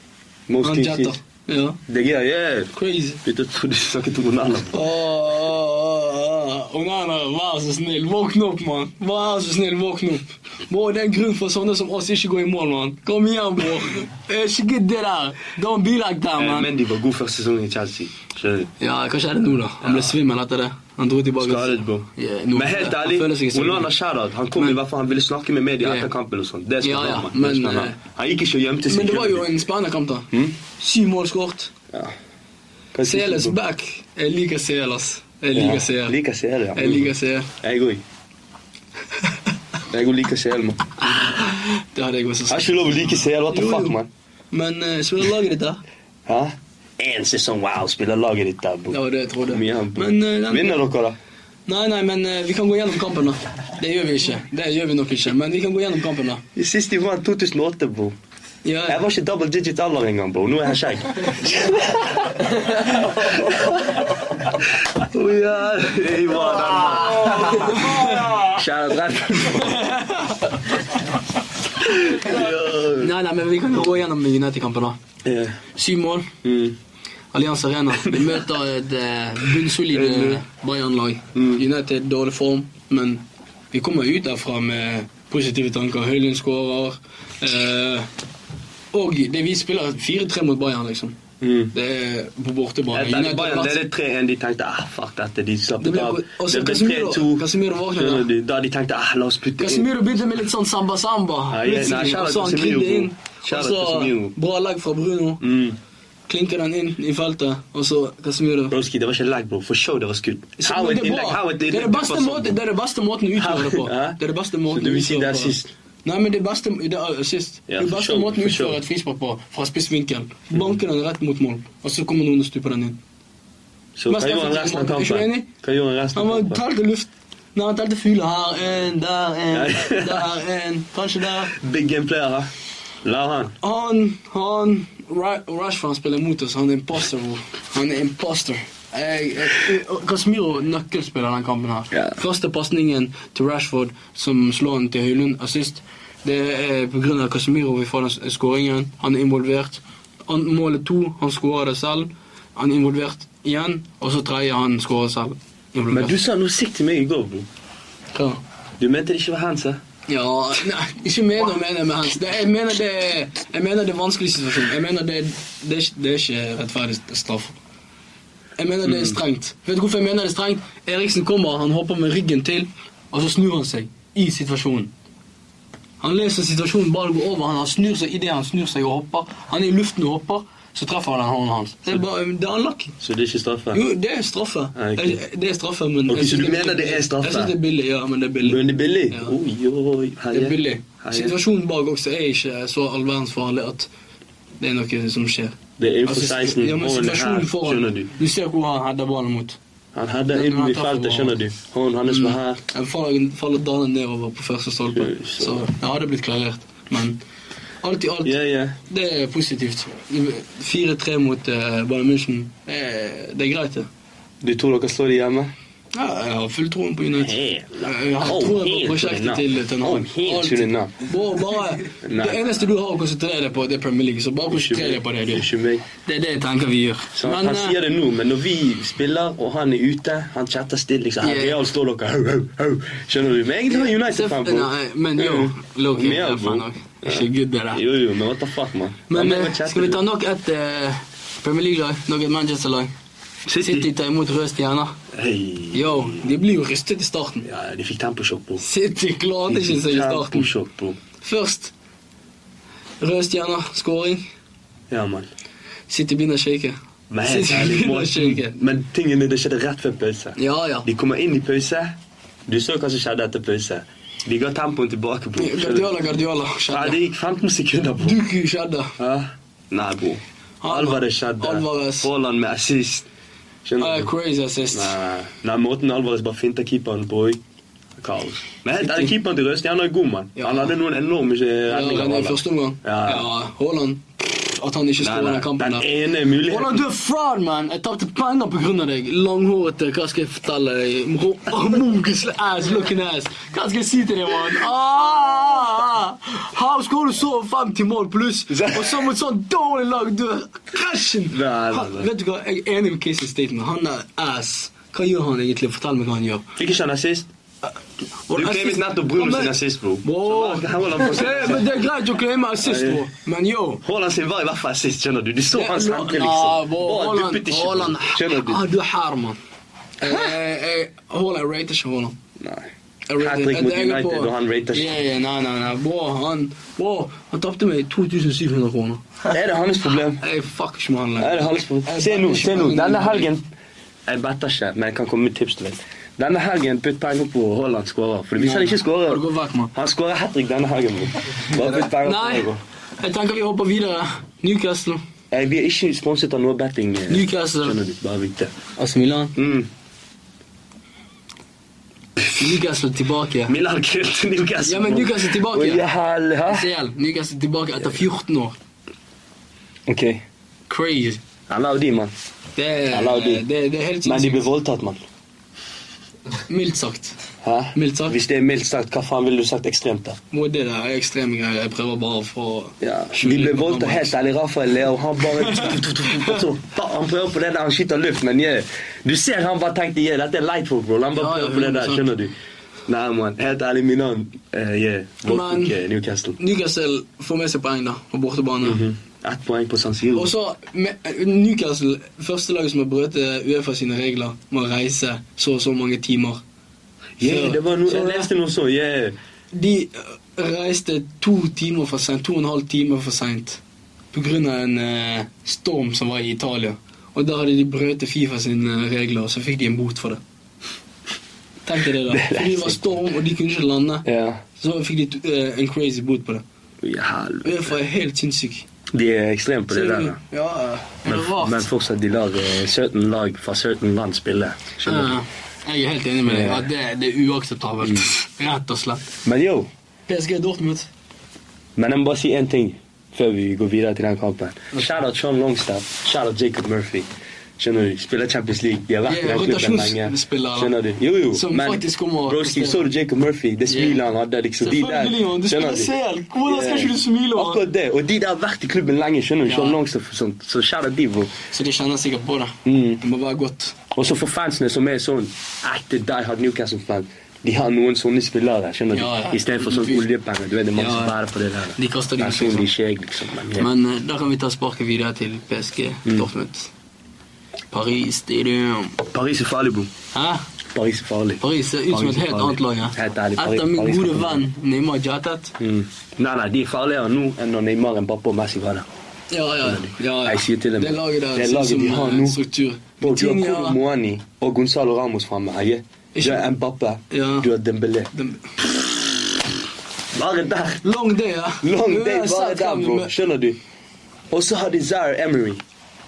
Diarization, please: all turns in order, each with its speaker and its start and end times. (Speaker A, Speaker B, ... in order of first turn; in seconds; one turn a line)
Speaker A: 0.5-1.2
Speaker B: 0.6-1.8
Speaker A: 1.9-2.7
Speaker B: 2.7-3.2
Speaker A: 3.2-4.8
Speaker B: 4.7-16.7
Speaker A: 16.4-18.7
Speaker B: 18.8-23.9
Speaker A: 19.8-20.2
Speaker A: 21.4-29.5
Speaker B: 25.8-26.1
Speaker B: 26.8-28.0
Speaker B: 28.9-31.7
Speaker A: 32.9-33.6
Speaker B: 33.0-36.2
Speaker A: 35.5-38.0
Speaker B: 36.8-37.5
Speaker A: 39.9-41.3
Speaker B: 41.0-44.0
Speaker A: 42.5-44.1
Speaker B: 44.5-45.8
Speaker A: 46.3-51.2
Speaker B: 48.9-50.8
Speaker B: 51.7-56.4
Speaker A: 56.5-58.2
Speaker B: 58.6-59.0
Speaker A: 58.9-69.9
Speaker B: 67.3-68.3
Speaker B: 69.5-70.8
Speaker A: 71.8-73.1
Speaker B: 72.3-75.0
Speaker A: 75.2-75.6
Speaker B: 75.7-76.3
Speaker A: 76.4-76.8
Speaker B: 77.3-88.1
Speaker A: 78.0-78.4
Speaker A: 79.7-80.4
Speaker A: 81.3-81.6
Speaker B: 88.9-91.2
Speaker A: 91.4-91.7
Speaker B: 91.7-93.8
Speaker A: 92.9-99.9
Speaker B: 95.8-98.3
Speaker B: 99.6-105.4
Speaker A: 101.5-104.3
Speaker A: 105.4-105.8
Speaker B: 106.3-108.8
Speaker A: 108.7-112.6
Speaker B: 110.6-123.0
Speaker A: 113.4-115.7
Speaker A: 117.7-118.8
Speaker A: 124.0-126.6
Speaker B: 124.1-125.5
Speaker B: 126.2-131.6
Speaker A: 129.5-130.3
Speaker A: 131.5-132.5
Speaker A: 133.0-133.6
Speaker B: 133.6-156.2
Speaker A: 141.9-142.2
Speaker A: 155.9-157.5
Speaker B: 158.1-158.4
Speaker A: 158.8-159.8
Speaker B: 160.1-167.6
Speaker B: 168.6-174.9
Speaker A: 168.8-169.2
Speaker B: 176.0-182.9
Speaker A: 183.0-183.8
Speaker B: 183.7-189.3
Speaker A: 184.8-185.2
Speaker A: 186.1-187.6
Speaker A: 188.4-191.4
Speaker B: 190.3-193.9
Speaker B: 194.6-199.6
Speaker A: 195.8-198.1
Speaker A: 199.9-202.6
Speaker B: 200.3-201.4
Speaker B: 202.1-207.2
Speaker A: 204.9-205.7
Speaker B: 207.8-213.9
Speaker A: 208.2-208.8
Speaker A: 214.4-215.5
Speaker B: 215.9-227.8
Speaker A: 217.1-220.9
Speaker A: 222.0-222.6
Speaker A: 224.5-225.8
Speaker A: 227.2-240.0
Speaker B: 231.2-231.6
Speaker B: 233.7-237.8
Speaker B: 239.1-242.9
Speaker A: 243.5-243.9
Speaker B: 243.6-245.0
Speaker A: 245.1-246.3
Speaker B: 245.7-247.5
Speaker A: 247.4-248.6
Speaker B: 248.6-250.5
Speaker A: 249.5-251.0
Speaker B: 251.2-251.7
Speaker B: 253.0-254.2
Speaker A: 254.9-255.3
Speaker B: 255.9-258.6
Speaker A: 257.1-262.0
Speaker B: 260.4-260.9
Speaker A: 262.5-266.0
Speaker B: 265.4-267.0
Speaker A: 266.7-268.2
Speaker B: 268.0-268.9
Speaker A: 269.0-273.1
Speaker B: 270.6-272.1
Speaker A: 273.6-274.1
Speaker B: 273.8-275.0
Speaker A: 274.7-277.4
Speaker A: 278.0-283.3
Speaker B: 278.8-279.1
Speaker B: 280.4-280.8
Speaker B: 281.7-285.9
Speaker A: 285.0-286.8
Speaker B: 286.4-306.5
Speaker A: 298.5-299.1
Speaker A: 301.3-302.1
Speaker A: 306.6-307.3
Speaker B: 308.3-313.8
Speaker A: 308.3-311.8
Speaker A: 312.6-313.1
Speaker A: 313.8-318.6
Speaker B: 315.5-319.4
Speaker B: 320.0-322.2
Speaker A: 320.1-320.3
Speaker A: 322.4-324.9
Speaker B: 323.1-329.0
Speaker A: 329.3-330.2
Speaker B: 330.2-333.3
Speaker A: 331.2-333.5
Speaker A: 334.1-342.6
Speaker B: 338.4-339.7
Speaker B: 341.5-342.5
Speaker B: 343.0-345.0
Speaker A: 345.3-348.5
Speaker B: 347.1-347.8
Speaker B: 348.8-349.4
Speaker A: 349.4-349.7
Speaker B: 352.3-353.6
Speaker A: 353.5-356.7
Speaker B: 354.6-355.9
Speaker B: 356.4-358.6
Speaker A: 359.9-360.2
Speaker B: 360.7-361.2
Speaker A: 361.5-362.1
Speaker B: 362.6-364.5
Speaker A: 362.9-363.4
Speaker A: 364.0-365.0
Speaker B: 366.5-367.2
Speaker A: 367.4-370.2
Speaker B: 367.7-368.2
Speaker B: 370.3-374.1
Speaker A: 372.8-382.3
Speaker B: 375.4-376.4
Speaker B: 381.2-382.1
Speaker A: 382.9-386.4
Speaker B: 385.3-385.8
Speaker B: 386.4-388.8
Speaker A: 388.6-390.3
Speaker B: 390.1-396.4
Speaker A: 397.2-399.2
Speaker B: 397.2-398.3
Speaker B: 399.5-403.6
Speaker B: 404.1-410.2
Speaker B: 411.6-416.4
Speaker A: 412.1-412.8
Speaker A: 414.1-414.4
Speaker A: 416.8-417.7
Speaker B: 417.4-418.7
Speaker A: 418.9-420.2
Speaker B: 419.7-421.6
Speaker A: 421.1-425.2
Speaker B: 424.9-429.0
Speaker A: 426.3-426.7
Speaker A: 427.8-428.1
Speaker A: 429.2-429.7
Speaker B: 430.1-430.9
Speaker A: 431.8-437.1
Speaker A: 437.6-445.9
Speaker B: 439.1-440.7
Speaker B: 441.3-442.9
Speaker B: 443.7-444.0
Speaker B: 444.6-447.6
Speaker A: 446.4-451.3
Speaker B: 449.4-449.8
Speaker B: 451.5-453.8
Speaker A: 452.6-453.0
Speaker A: 453.9-463.7
Speaker B: 458.9-460.0
Speaker B: 460.8-461.2
Speaker B: 461.8-462.7
Speaker B: 463.5-466.7
Speaker B: 467.7-469.0
Speaker A: 469.1-469.9
Speaker B: 470.1-470.4
Speaker A: 470.7-474.4
Speaker B: 471.4-475.6
Speaker A: 475.6-478.9
Speaker B: 479.3-483.8
Speaker A: 479.6-482.4
Speaker A: 483.0-488.1
Speaker B: 486.1-486.5
Speaker B: 487.1-487.5
Speaker B: 488.1-488.5
Speaker A: 490.1-490.9
Speaker B: 490.8-493.1
Speaker A: 491.6-493.6
Speaker A: 494.3-495.6